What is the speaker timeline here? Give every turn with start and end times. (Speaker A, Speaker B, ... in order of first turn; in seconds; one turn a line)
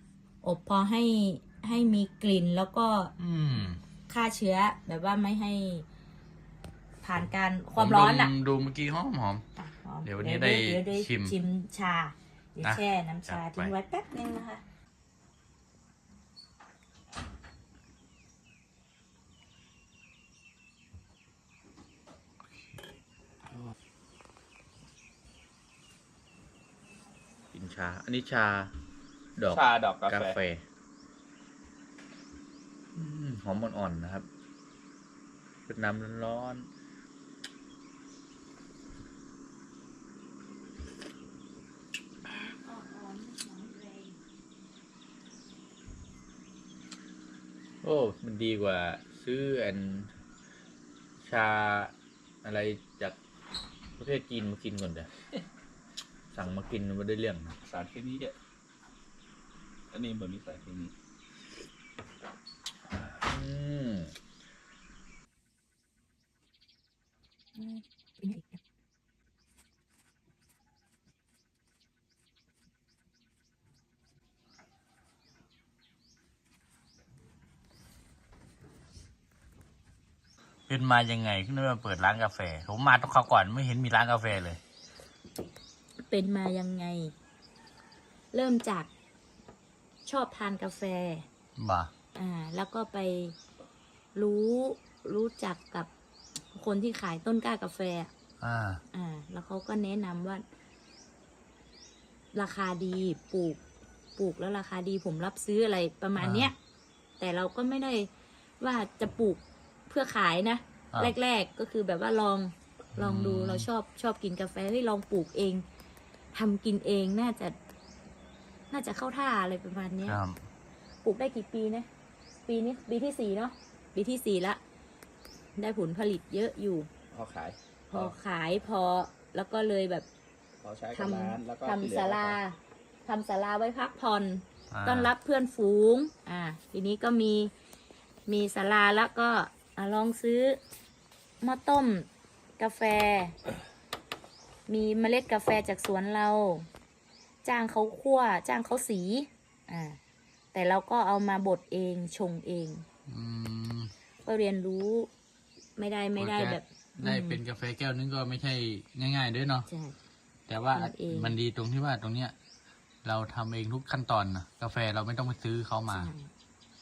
Speaker A: 0.4-3.1
Speaker B: 3.2-3.8
Speaker A: 4.1-5.8
Speaker A: 7.0-8.3
Speaker B: 7.8-9.4
Speaker A: 9.6-14.6
Speaker B: 10.0-11.3
Speaker B: 12.6-13.7
Speaker B: 27.5-28.7
Speaker B: 29.4-30.6
Speaker C: 29.5-30.4
Speaker B: 33.0-34.3
Speaker B: 35.7-36.7
Speaker A: 42.3-44.2
Speaker B: 47.8-50.1
Speaker B: 51.2-51.9
Speaker B: 52.4-53.2
Speaker B: 54.0-55.1
Speaker B: 56.3-57.6
Speaker C: 57.6-58.3
Speaker C: 59.9-60.9
Speaker B: 63.2-64.2
Speaker A: 67.5-68.6
Speaker B: 80.7-84.6
Speaker A: 86.1-87.1
Speaker A: 88.3-88.9
Speaker A: 90.0-91.3
Speaker B: 91.6-91.9
Speaker A: 92.2-93.4
Speaker A: 94.2-95.9
Speaker A: 96.5-98.1
Speaker B: 98.4-98.8
Speaker A: 98.9-100.5
Speaker A: 102.3-103.6
Speaker A: 104.2-106.6
Speaker B: 106.2-106.5
Speaker A: 107.2-115.6
Speaker B: 113.0-113.7
Speaker A: 116.3-117.6
Speaker A: 118.7-120.2
Speaker B: 120.1-120.4
Speaker A: 121.0-121.9
Speaker A: 122.5-124.6
Speaker A: 125.6-126.9
Speaker C: 127.1-128.1
Speaker A: 127.9-130.1
Speaker C: 130.6-132.4
Speaker A: 130.9-137.5
Speaker B: 134.7-135.1
Speaker A: 138.3-140.6
Speaker A: 141.4-143.4
Speaker A: 144.7-146.7
Speaker A: 147.4-150.0
Speaker A: 150.5-152.9
Speaker B: 153.1-153.9
Speaker A: 154.2-155.1
Speaker A: 155.8-157.4
Speaker B: 156.2-159.7
Speaker A: 159.7-159.9
Speaker B: 160.5-162.3
Speaker A: 160.7-161.4
Speaker B: 163.1-166.1
Speaker A: 165.9-166.3